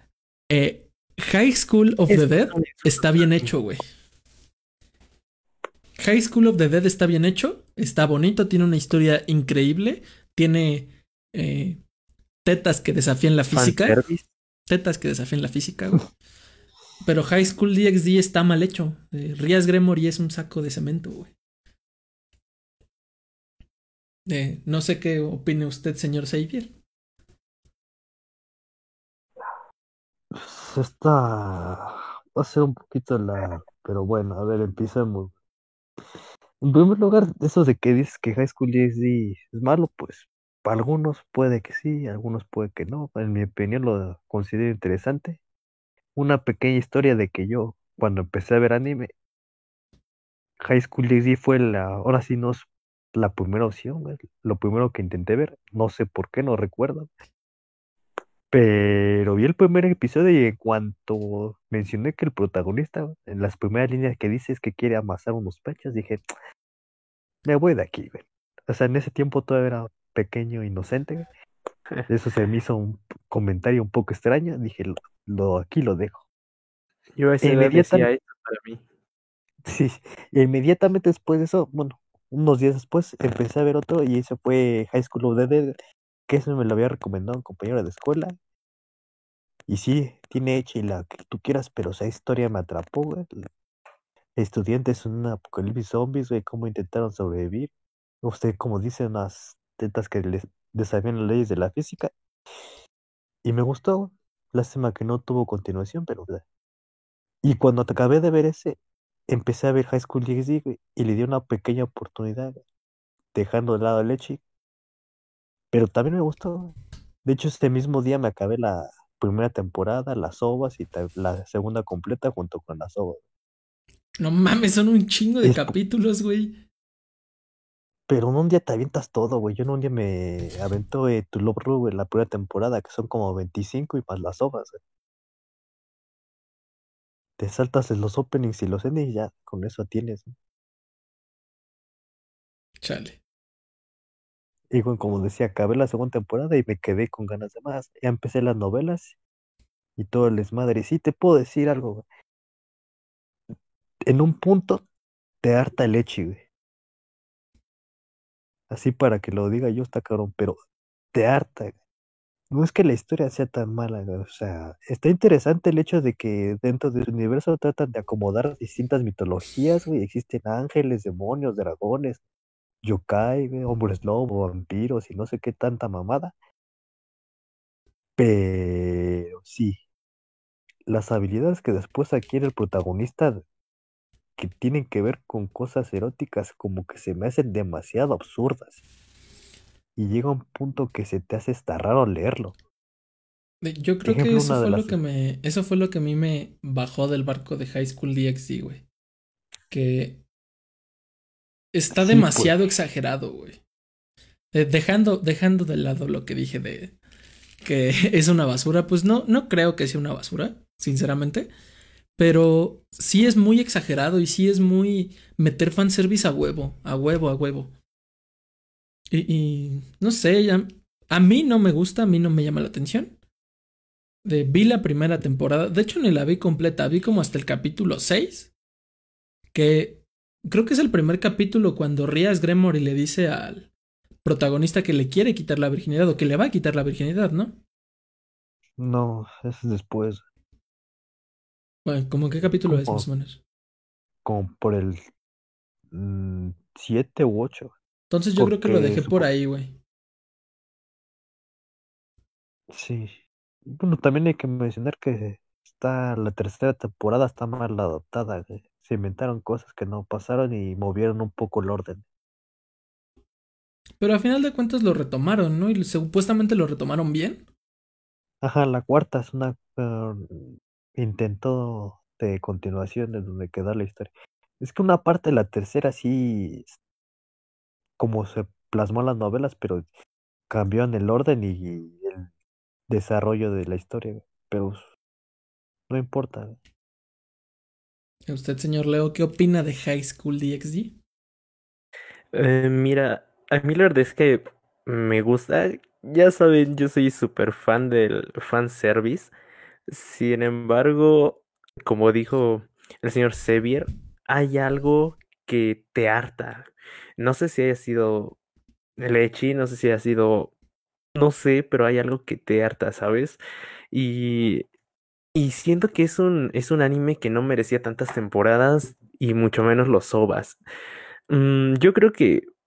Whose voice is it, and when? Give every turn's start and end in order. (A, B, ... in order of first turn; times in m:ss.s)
0:00.5-0:03.8 A
0:02.1-0:03.2 B
0:06.0-0:11.8 A
0:12.4-0:14.0 A
0:13.5-0:14.2 B
0:14.7-0:16.1 A
0:17.0-0:21.3 A
0:24.3-0:26.7 A
0:30.3-0:35.3 C
0:36.6-0:45.4 C
0:46.2-0:49.1 C
0:50.6-0:57.1 C
0:58.5-1:06.2 C
1:07.4-1:11.3 C
1:12.1-1:16.2 C
1:17.2-1:18.8 B
1:17.4-1:18.1 C
1:19.6-1:25.8 C
1:26.3-1:28.4 C
1:29.7-1:33.3 C
1:34.4-1:37.7 C
1:38.2-1:42.1 C
1:43.4-1:46.4 C
1:47.4-1:48.8 C
1:49.3-1:52.6 C
1:53.3-1:54.4 C
1:55.7-2:03.2 C
2:04.2-2:06.6 A
2:05.4-2:05.8 C
2:08.1-2:14.8 C
2:17.4-2:20.3 C
2:22.8-2:23.2 A
2:24.7-2:29.2 C
2:30.0-2:32.0 C
2:34.1-2:34.8 C
2:35.4-2:36.4 C
2:38.7-2:40.6 C
2:41.1-2:41.8 C
2:42.5-2:52.2 C
2:52.8-2:56.3 C
2:58.2-2:59.8 C
3:00.9-3:03.4 C
3:04.4-3:08.8 C
3:10.0-3:12.6 C
3:13.6-3:18.8 A
3:14.0-3:15.0 C
3:19.7-3:20.2 A
3:21.7-3:23.6 A
3:21.9-3:22.6 C
3:24.5-3:27.0 A
3:27.6-3:31.5 A
3:32.2-3:37.7 A
3:39.1-3:43.2 A
3:44.2-3:48.5 A
3:49.5-3:53.7 A
3:54.2-3:57.6 A
3:58.8-4:00.2 C
4:01.8-4:03.4 A
4:02.6-4:03.1 C
4:04.2-4:05.0 C
4:05.9-4:07.7 C
4:08.1-4:09.8 A
4:08.4-4:09.3 C
4:12.7-4:22.0 C
4:24.0-4:27.5 A
4:28.4-4:36.8 C
4:38.0-4:39.9 C
4:40.5-4:42.3 C
4:42.9-4:44.9 C
4:45.9-4:46.6 C
4:48.3-4:51.0 A
4:52.3-4:59.3 B
4:59.9-5:08.4 B
5:09.0-5:10.5 B
5:11.2-5:13.4 B
5:13.9-5:14.7 B
5:15.4-5:20.6 B
5:21.3-5:22.5 B